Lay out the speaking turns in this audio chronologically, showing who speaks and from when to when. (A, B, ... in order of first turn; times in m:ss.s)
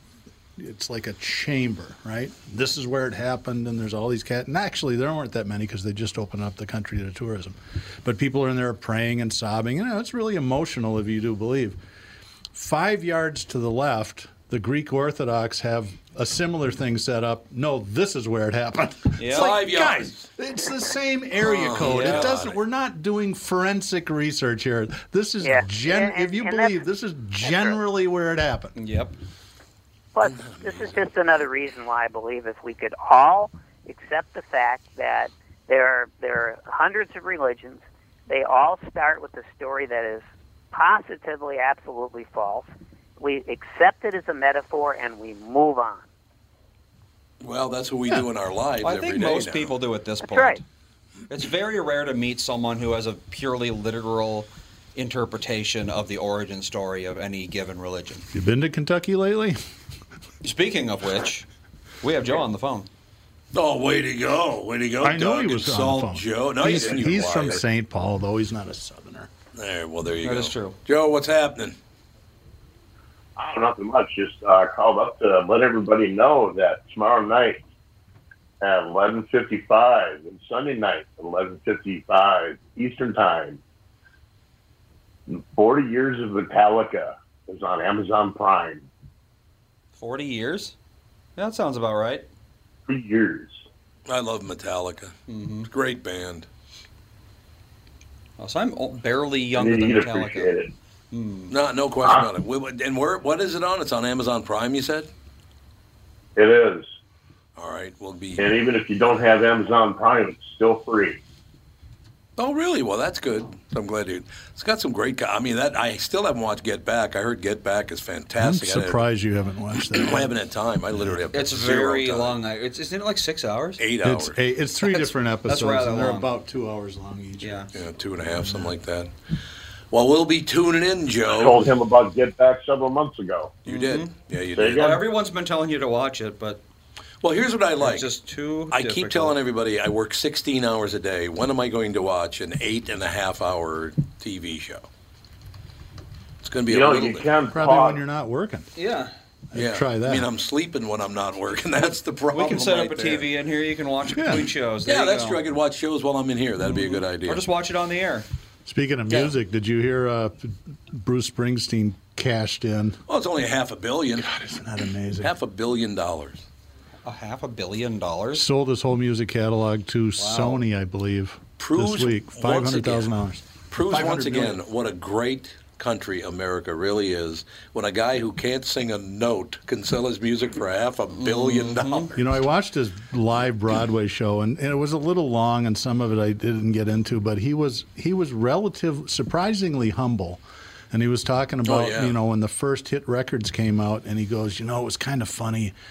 0:00.6-0:11.8 A
0:12.5-0:28.8 A
0:19.2-0:19.5 B
0:19.3-0:20.3 C
0:21.4-0:22.6 C
0:21.8-0:22.3 B
0:25.4-0:26.8 D
0:27.4-0:27.8 D
0:28.8-0:29.1 B
0:30.2-0:46.1 D
0:30.3-0:30.9 C
0:47.4-0:49.8 C
0:48.8-0:50.6 B
0:50.3-0:50.6 D
0:51.3-0:58.3 B
0:58.3-0:59.6 A
1:00.4-1:01.5 B
1:02.0-1:02.9 B
1:03.5-1:07.6 C
1:05.0-1:09.3 A
1:09.6-1:11.8 C
1:10.2-1:10.8 B
1:13.4-1:17.6 E
1:18.6-1:23.6 E
1:25.3-1:28.9 E
1:30.0-1:30.8 B
1:31.4-1:32.3 B
1:32.9-1:33.6 E
1:34.1-1:35.1 C
1:35.3-1:35.7 B
1:35.6-1:36.5 C
1:38.4-1:40.5 B
1:39.6-1:40.7 E
1:41.1-1:41.5 B
1:41.5-1:45.1 C
1:46.4-1:46.9 E
1:47.6-1:48.5 C
1:48.4-1:51.2 E
1:52.4-1:59.0 C
1:58.4-2:00.3 A
1:59.8-2:02.4 C
2:01.3-2:03.8 B
2:03.8-2:04.4 C
2:04.0-2:07.7 A
2:05.0-2:06.3 B
2:07.4-2:07.7 B
2:07.7-2:09.1 C
2:08.3-2:08.7 A
2:09.9-2:11.7 C
2:11.3-2:13.6 E
2:13.7-2:15.0 C
2:13.7-2:14.1 B
2:14.6-2:15.0 E
2:14.8-2:16.6 B
2:17.2-2:18.1 C
2:17.8-2:19.4 B
2:18.7-2:24.9 C
2:26.4-2:27.3 C
2:26.7-2:28.0 E
2:27.5-2:28.7 A
2:28.8-2:29.1 B
2:29.5-2:30.3 A
2:29.6-2:33.3 C
2:32.3-2:35.4 B
2:34.2-2:34.5 A
2:34.9-2:37.4 C
2:36.6-2:38.3 B
2:38.7-2:43.0 A
2:43.1-2:44.4 C
2:44.2-2:45.3 A
2:45.2-2:46.5 C
2:47.0-2:48.5 B
2:48.4-2:54.6 A
2:50.2-2:50.6 B
2:51.6-2:53.1 C
2:53.7-3:02.3 C
3:01.2-3:02.2 B
3:02.2-3:15.8 A
3:11.6-3:12.2 C